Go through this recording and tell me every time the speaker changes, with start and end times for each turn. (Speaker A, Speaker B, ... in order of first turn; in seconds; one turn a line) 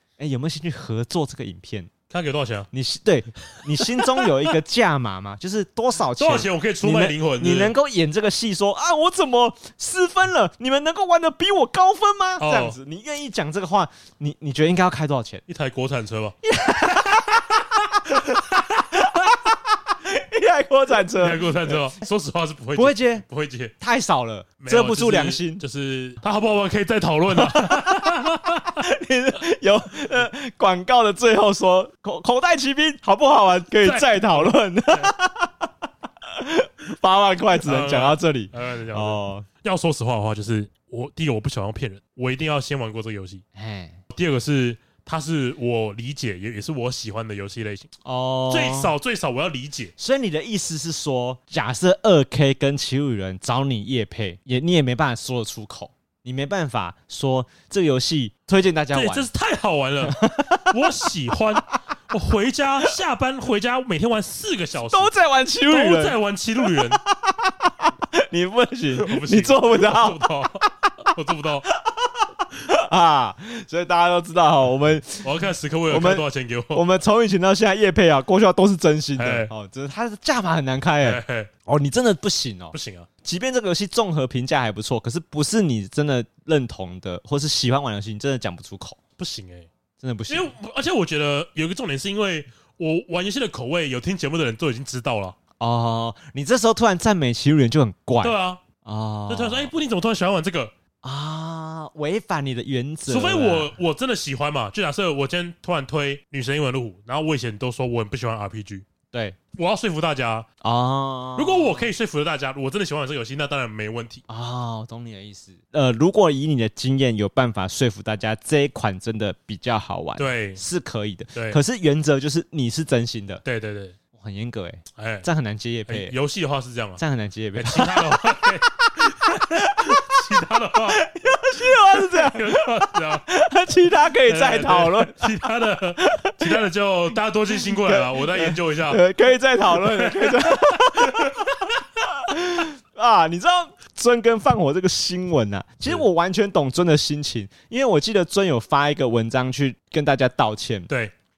Speaker A: 0.2-1.9
Speaker B: 2.1-2.7
Speaker A: 2.7-15.4
Speaker B: 3.5-4.5
Speaker B: 6.2-7.7
Speaker B: 12.4-12.8
Speaker B: 15.5-19.1
Speaker A: 16.4-17.4
Speaker A: 18.1-18.4
Speaker A: 18.9-21.8
Speaker B: 21.2-23.7
Speaker A: 22.8-23.2
Speaker A: 23.8-25.6
Speaker B: 24.6-28.8
Speaker A: 27.3-28.1
Speaker A: 28.7-35.7
Speaker B: 33.8-35.1
Speaker A: 36.2-39.5
Speaker B: 37.6-43.4
Speaker A: 43.5-44.0
Speaker B: 44.1-47.9
Speaker A: 48.0-48.9
Speaker B: 48.5-49.9
Speaker A: 50.0-59.3
Speaker B: 58.9-65.1
Speaker A: 60.0-60.8
Speaker A: 64.8-66.2
Speaker B: 65.7-67.0
Speaker A: 66.7-70.2
Speaker B: 68.9-71.7
Speaker A: 71.7-75.3
Speaker B: 75.2-76.8
Speaker A: 75.9-89.0
Speaker B: 79.2-79.5
Speaker B: 81.0-81.5
Speaker B: 82.7-83.1
Speaker B: 89.2-89.7
Speaker A: 90.0-90.5
Speaker B: 90.3-95.3
Speaker A: 95.6-99.7
Speaker B: 98.2-98.6
Speaker B: 99.3-100.7
Speaker A: 101.0-103.7
Speaker B: 103.1-108.8
Speaker A: 109.1-109.4
Speaker B: 109.5-110.5
Speaker A: 110.6-111.9
Speaker B: 111.3-114.2
Speaker A: 114.3-123.4
Speaker B: 120.2-120.6
Speaker B: 121.3-121.6
Speaker B: 123.4-124.0
Speaker A: 124.1-126.1
Speaker B: 125.0-125.3
Speaker B: 125.9-127.0
Speaker A: 127.0-130.2
Speaker B: 127.5-131.0
Speaker A: 130.9-135.3
Speaker B: 131.6-133.3
Speaker B: 134.2-139.0
Speaker A: 136.0-136.6
Speaker A: 137.5-150.9
Speaker B: 139.7-141.7